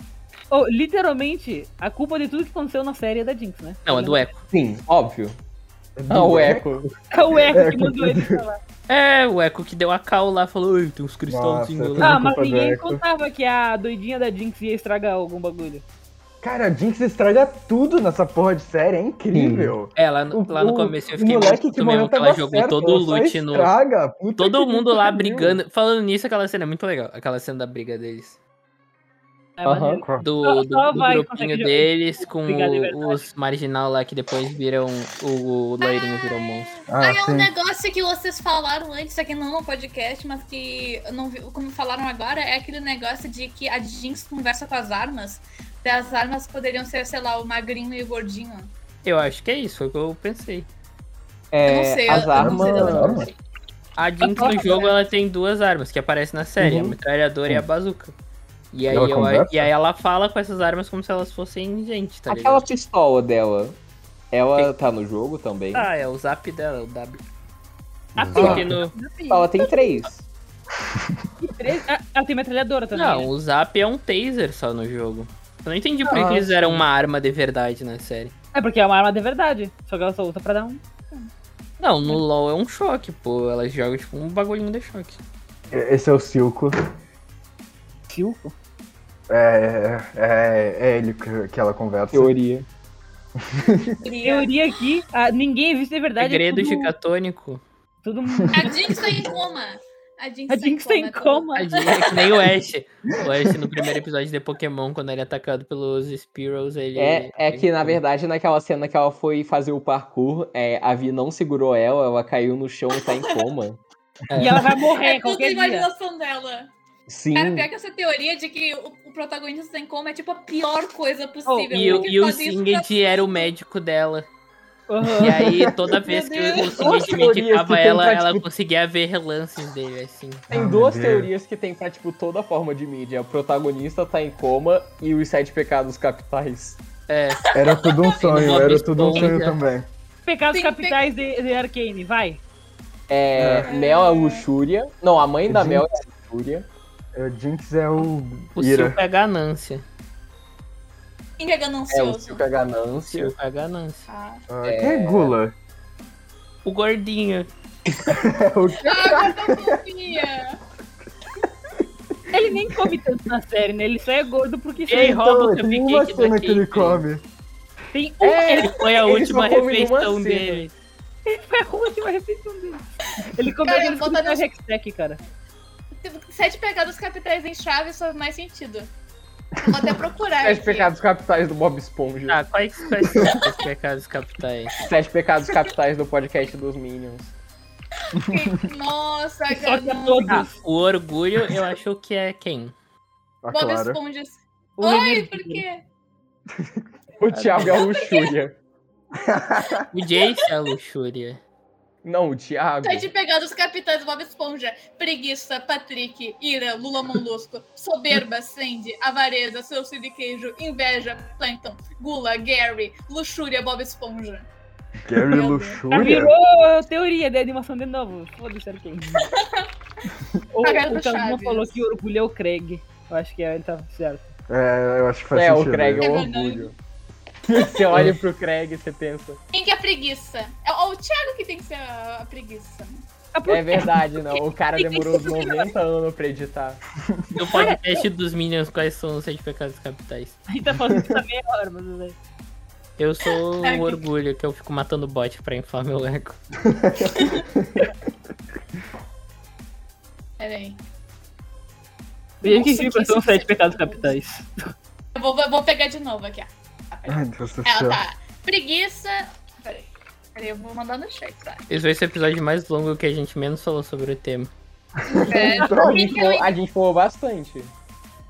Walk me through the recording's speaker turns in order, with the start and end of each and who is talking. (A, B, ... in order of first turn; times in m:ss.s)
0:00.5-0:04.3 A
0:03.8-0:04.4 B
0:04.5-0:05.4 C
0:06.0-0:08.4 D
0:06.1-0:06.9 C
0:07.1-0:08.6 A
0:08.9-0:12.2 B
0:11.3-0:13.0 D
0:12.0-0:15.8 A
0:16.4-0:25.6 D
0:19.3-0:19.7 C
0:19.9-0:23.7 B
0:20.5-0:20.9 C
0:24.4-0:28.4 B
0:29.6-0:33.2 A
0:29.6-0:30.1 C
0:30.2-0:36.7 B
0:35.8-0:48.7 E
0:36.9-0:37.5 D
0:49.0-0:50.7 B
0:51.5-0:53.3 C
0:51.6-0:53.3 E
0:52.1-0:53.3 D
0:54.0-0:58.1 B
0:54.2-0:54.9 A
0:56.6-0:57.0 C
0:58.7-1:02.6 B
0:58.9-0:59.7 D
1:02.3-1:03.8 C
1:04.3-1:05.9 C
1:05.7-1:07.2 B
1:08.2-1:08.7 D
1:08.2-1:09.7 A
1:08.4-1:08.9 B
1:08.4-1:08.6 C
1:09.3-1:10.3 C
1:11.4-1:13.3 A
1:12.9-1:18.3 B
1:16.1-1:16.8 A
1:16.1-1:16.5 D
1:18.6-1:20.8 A
1:21.8-1:25.2 B
1:25.7-1:26.8 D
1:28.1-1:28.5 A
1:29.3-1:32.3 D
1:32.1-1:32.7 C
1:33.5-1:33.9 D
1:34.0-1:34.5 E
1:34.2-1:36.9 A
1:36.2-1:37.6 B
1:38.0-1:38.9 A
1:38.3-1:39.1 D
1:38.5-1:42.3 E
1:40.5-1:41.7 A
1:41.6-1:48.0 B
1:47.0-1:53.8 C
1:52.9-1:53.4 E
1:54.3-1:54.6 B
1:54.4-1:55.9 A
1:54.8-1:56.7 E
1:57.1-1:57.7 C
1:57.3-2:03.5 E
2:01.4-2:02.1 A
2:01.7-2:04.3 B
2:04.9-2:05.4 A
2:05.2-2:10.4 B
2:06.0-2:07.1 E
2:06.1-2:08.4 C
2:10.5-2:11.3 D
2:10.5-2:16.8 C
2:17.1-2:17.4 B
2:17.4-2:18.4 E
2:17.5-2:19.9 D
2:18.2-2:19.6 B
2:20.3-2:22.4 A
2:20.5-2:21.1 E
2:23.1-2:26.7 C
2:23.4-2:23.6 D
2:23.6-2:24.5 E
2:25.5-2:25.8 D
2:27.1-2:29.0 D
2:28.6-2:29.8 B
2:31.4-2:32.4 E
2:31.9-2:33.3 C
2:33.1-2:34.1 B
2:34.1-2:34.4 E
2:34.5-2:35.5 D
2:34.6-2:35.4 C
2:36.6-2:37.5 B
2:38.1-2:39.8 D
2:38.8-2:40.6 E
2:42.3-2:45.2 A
2:44.9-2:47.0 B
2:45.0-2:47.2 D
2:47.9-2:48.7 A
2:48.2-2:50.7 C
2:48.6-2:50.7 B
2:51.3-2:55.2 A
2:53.2-2:54.4 E
2:56.0-2:58.9 E
2:59.6-3:00.9 E
3:00.4-3:02.4 C
3:02.3-3:04.8 B
3:04.8-3:07.4 C
3:08.1-3:10.5 E
3:08.2-3:08.6 D
3:09.5-3:10.6 A
3:10.4-3:12.7 B
3:13.4-3:14.0 D
3:13.5-3:15.8 E
3:14.8-3:15.6 A
3:16.6-3:16.8 D
3:17.2-3:18.6 C
3:17.3-3:17.8 B
3:17.6-3:18.3 E
3:19.2-3:19.8 D
3:19.8-3:20.4 E
3:19.9-3:21.4 B
3:22.0-3:23.1 C
3:22.8-3:34.5 E
3:35.1-3:36.3 D
3:35.1-3:36.2 E
3:35.9-3:39.3 A
3:39.2-3:39.7 E
3:40.5-3:44.3 A
3:40.6-3:41.8 E
3:44.5-3:46.1 D
3:45.3-3:46.7 C
3:46.0-3:46.7 E
3:47.5-3:49.4 C
3:47.5-3:48.0 D
3:47.6-3:47.9 E
3:49.5-3:53.0 E
3:53.4-3:54.2 A
3:53.5-3:56.8 C
3:54.7-3:55.7 A
3:57.3-4:00.4 B
3:57.5-3:57.8 A
4:00.5-4:02.2 A
4:00.9-4:01.2 D
4:03.0-4:06.4 B
4:03.6-4:04.0 E
4:06.7-4:07.7 D
4:07.0-4:07.4 E
4:10.4-4:10.8 E
4:12.4-4:14.2 E
4:12.4-4:14.5 A
4:15.1-4:21.6 E
4:17.1-4:18.0 D
4:21.7-4:24.5 B
4:25.1-4:26.6 E
4:25.1-4:26.2 D
4:25.7-4:27.7 C